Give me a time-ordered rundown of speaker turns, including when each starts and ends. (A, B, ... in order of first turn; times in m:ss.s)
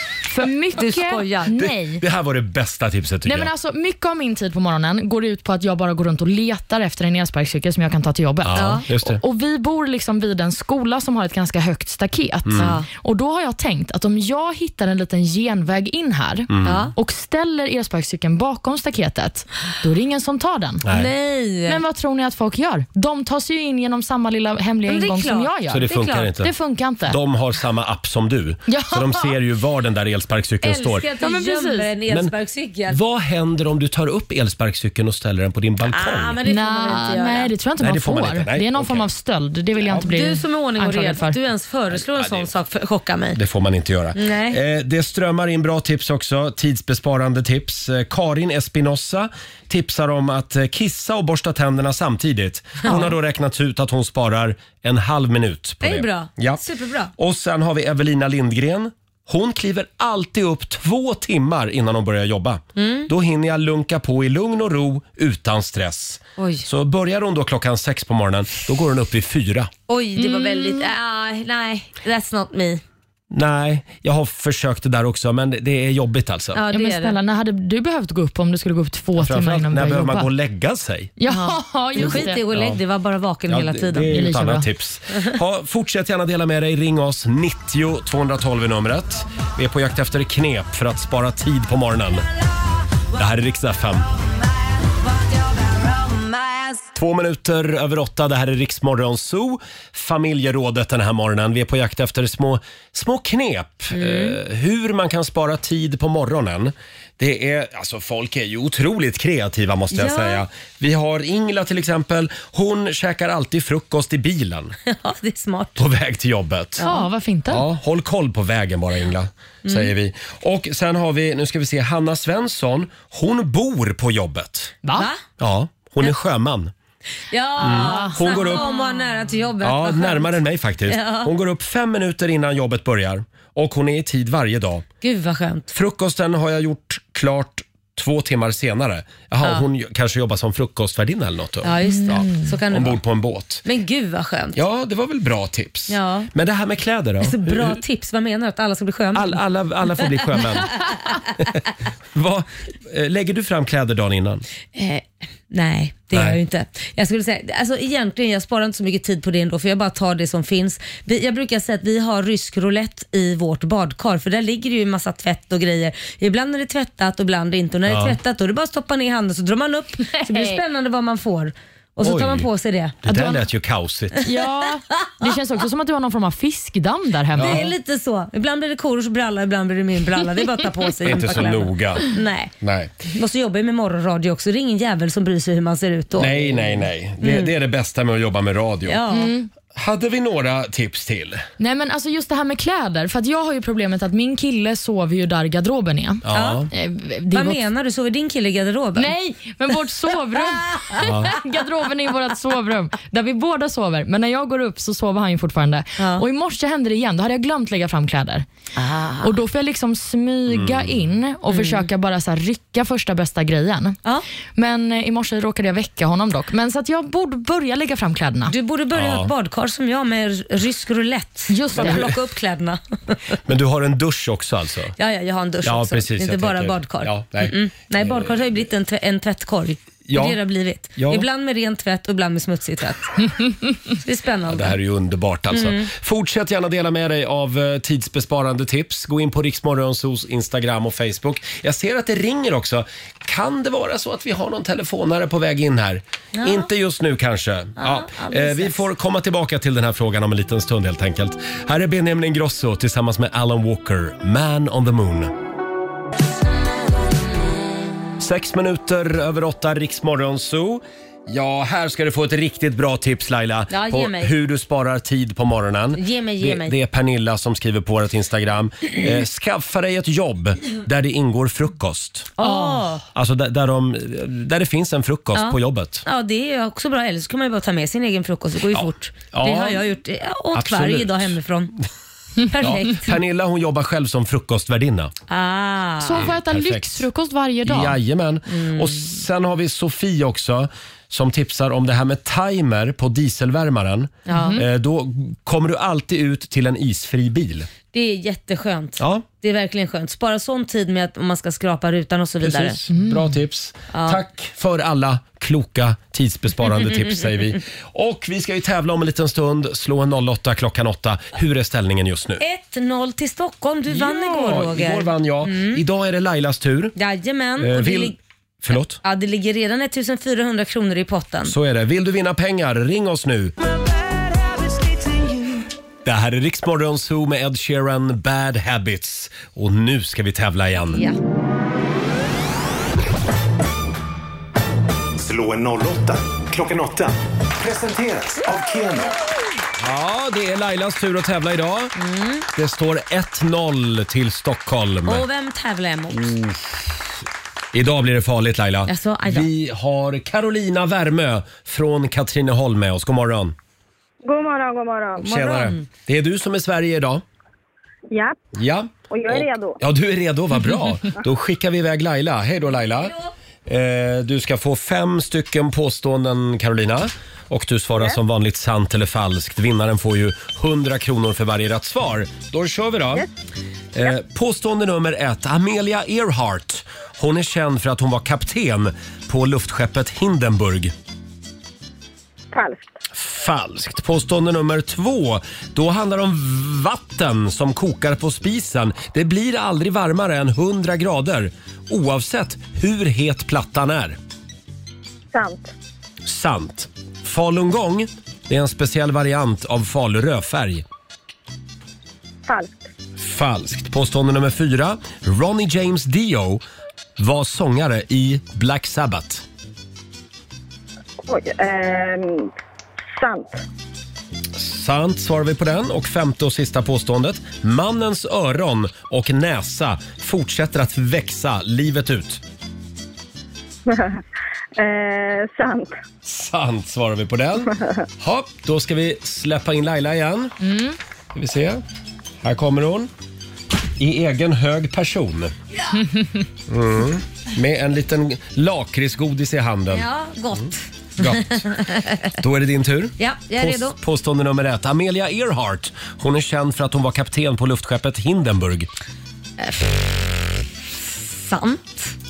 0:00.3-0:02.0 A
0:00.8-0:01.6 B
0:01.6-0:03.5 C
0:03.2-0:20.9 A
0:08.4-0:09.2 C
0:08.6-0:08.8 B
0:12.4-0:12.8 C
0:12.6-0:12.9 B
0:16.5-0:16.9 C
0:16.6-0:16.9 B
0:20.8-0:21.1 C
0:20.9-0:21.8 B
0:21.7-0:27.2 A
0:24.9-0:26.3 B
0:25.7-0:26.5 C
0:27.1-0:31.0 C
0:28.7-0:29.3 A
0:30.6-0:33.0 B
0:31.2-0:31.9 A
0:32.1-0:32.3 C
0:32.9-0:36.4 C
0:35.8-0:37.5 B
0:36.4-0:41.4 A
0:37.8-0:39.1 C
0:39.9-0:43.4 B
0:42.1-0:42.5 C
0:43.4-0:56.6 C
0:44.2-0:44.6 B
0:55.8-0:57.1 B
0:57.2-1:09.7 C
1:02.8-1:03.1 B
1:06.4-1:06.7 B
1:09.9-1:12.8 B
1:10.2-1:10.9 A
1:13.3-1:16.6 C
1:16.6-1:17.2 B
1:16.7-1:20.3 A
1:19.2-1:21.1 C
1:21.2-1:22.4 A
1:21.3-1:24.1 B
1:22.0-1:22.8 C
1:23.5-1:32.3 C
1:24.1-1:24.7 A
1:33.1-1:34.1 C
1:35.1-1:36.8 B
1:37.0-1:54.8 C
1:43.9-1:44.4 B
1:49.9-1:50.4 B
1:54.9-1:55.8 B
1:55.8-1:56.8 C
1:56.8-1:57.1 B
1:56.8-1:57.6 A
1:57.5-2:04.7 C
1:59.6-1:59.9 B
2:04.8-2:05.1 A
2:05.0-2:05.2 B
2:05.4-2:06.7 C
2:07.3-2:10.4 B
2:07.6-2:08.6 A
2:07.6-2:08.7 C
2:09.6-2:14.8 C
2:10.9-2:11.3 B
2:15.0-2:15.7 B
2:15.7-2:23.6 C
2:21.6-2:23.0 B
2:21.8-2:22.5 A
2:23.6-2:24.6 B
2:24.6-2:27.8 C
2:25.9-2:26.3 B
2:27.2-2:29.4 B
2:29.2-2:31.6 C
2:32.1-2:34.5 C
2:34.8-2:53.0 B
2:36.1-2:36.4 C
2:47.9-2:48.2 C
2:50.1-2:50.6 A
2:52.0-2:52.5 C
2:53.0-2:54.3 C
2:53.1-2:53.4 A
2:54.2-2:57.6 A
2:57.3-2:57.7 C
2:57.4-3:02.5 B
3:01.0-3:02.1 C
3:02.6-3:03.0 C
3:03.0-3:06.6 B
3:06.2-3:09.0 C
3:07.2-3:07.5 B
3:08.9-3:09.3 B
3:09.1-3:09.5 A
3:09.7-3:11.4 C
3:11.6-3:17.6 A
3:16.2-3:16.7 C
3:16.3-3:16.7 B
3:17.3-3:19.1 B
3:19.0-3:28.4 A
3:20.4-3:21.0 B
3:21.0-3:21.3 C
3:26.0-3:26.2 B
3:28.8-3:29.3 B
3:29.2-3:34.0 A
3:30.5-3:31.0 C
3:31.5-3:31.9 B
3:34.6-3:38.5 A
3:38.5-3:43.4 B
3:38.9-3:39.3 C
3:41.5-3:42.1 A
3:41.8-3:42.1 C
3:43.5-3:45.0 C
3:45.0-3:54.8 B
3:45.6-3:48.4 C
3:50.1-3:50.4 C
3:51.0-3:51.3 C
3:54.5-4:15.3 C
3:55.5-3:55.9 B
4:06.4-4:06.7 B
4:07.8-4:08.8 B
4:18.2-4:32.4 C
4:23.7-4:24.4 B
4:26.0-4:26.8 B
4:32.4-4:33.0 B
4:32.4-4:32.8 A
4:33.1-4:36.0 C
4:35.4-4:41.7 B
4:38.7-4:39.8 C
4:40.5-4:41.4 C
4:42.5-4:43.2 B
4:42.6-4:45.1 C
4:45.3-4:46.3 B
4:46.0-4:48.0 A
4:46.2-4:47.1 C
4:47.6-4:57.7 C
4:48.5-4:49.0 B
4:54.3-4:54.6 B
4:54.3-4:54.6 A
4:57.9-5:02.8 B
4:59.0-4:59.3 C
5:02.4-5:12.4 C
5:02.9-5:03.3 A
5:03.9-5:04.2 B
5:12.4-5:15.8 B
5:13.9-5:17.0 C
5:17.0-5:18.2 B
5:17.6-5:19.0 C
5:19.0-5:21.5 B
5:21.4-5:23.6 C
5:26.0-5:31.1 C
5:30.9-5:31.2 B
5:35.2-5:39.2 D
5:39.8-5:41.9 C
5:42.0-5:42.5 B
5:42.6-5:45.3 C
5:45.0-5:46.3 B
5:46.1-5:46.8 C
5:47.7-5:53.6 C
5:48.9-5:49.5 B
5:54.3-5:55.2 E
5:55.2-5:57.2 C
5:55.2-5:55.9 B
5:58.5-6:03.2 C
6:03.7-6:13.3 C
6:13.9-6:20.9 C
6:23.1-6:34.2 C
6:36.2-6:40.8 C
6:43.2-6:46.6 C
6:47.2-6:49.4 C
6:53.2-6:53.5 E
6:54.5-7:02.4 C
7:04.8-7:05.8 E
7:06.2-7:10.6 C
7:10.6-7:11.0 A
7:11.3-7:11.8 C
7:12.4-7:13.1 C
7:14.0-7:15.5 C
7:16.7-7:20.1 C
7:19.9-7:22.3 B
7:21.2-7:21.8 C
7:22.4-7:28.9 C
7:23.2-7:24.0 B
7:29.6-7:32.2 B